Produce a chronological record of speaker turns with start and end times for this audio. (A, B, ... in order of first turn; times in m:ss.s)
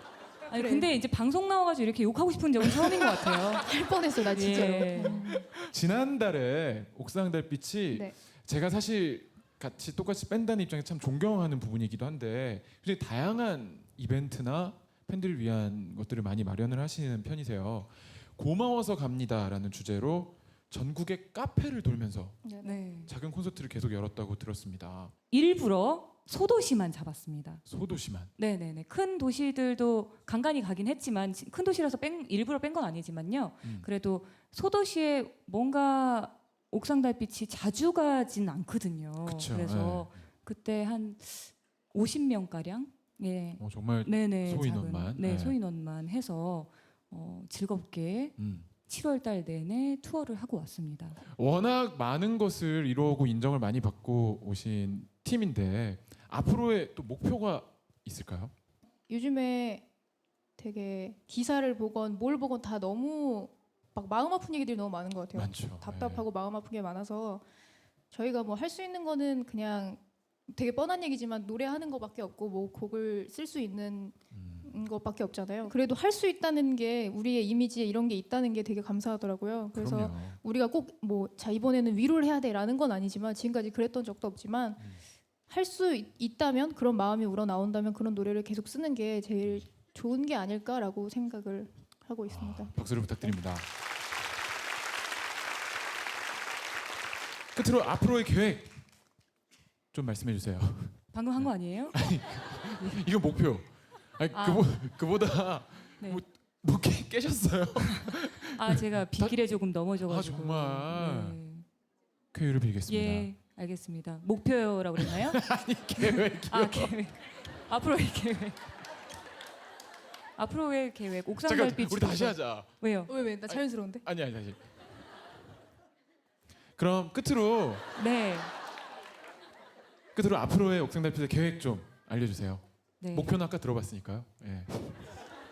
0:00.4-0:03.7 A
0:00.5-0:00.9 B
0:03.6-0:05.4 B
0:04.3-0:05.3 A
0:05.4-0:22.4 C
0:22.4-0:22.9 B
0:22.6-0:23.1 A
0:23.0-0:25.1 C
0:25.3-0:27.6 A
0:27.6-0:28.3 C
0:28.4-0:51.2 A
0:33.6-0:33.9 C
0:39.2-0:40.1 C
0:43.6-0:45.6 C
0:48.4-0:48.7 C
0:51.3-0:58.5 C
0:59.1-0:59.9 B
1:00.6-1:07.4 B
1:05.3-1:06.2 C
1:08.1-1:24.8 B
1:14.3-1:14.7 C
1:19.7-1:20.4 C
1:25.5-1:33.4 B
1:32.3-1:33.7 C
1:37.5-1:38.7 C
1:39.9-1:49.3 C
1:41.1-1:42.0 A
1:44.3-1:44.6 A
1:47.9-1:51.6 A
1:50.0-1:51.4 C
1:52.3-1:53.3 C
1:52.8-1:55.4 A
1:55.0-1:56.9 C
1:55.9-1:58.6 A
2:00.4-2:03.1 A
2:01.4-2:02.7 C
2:03.1-2:04.0 B
2:03.5-2:04.6 C
2:06.8-2:07.9 C
2:07.9-2:08.5 A
2:10.1-2:15.1 C
2:13.0-2:13.3 A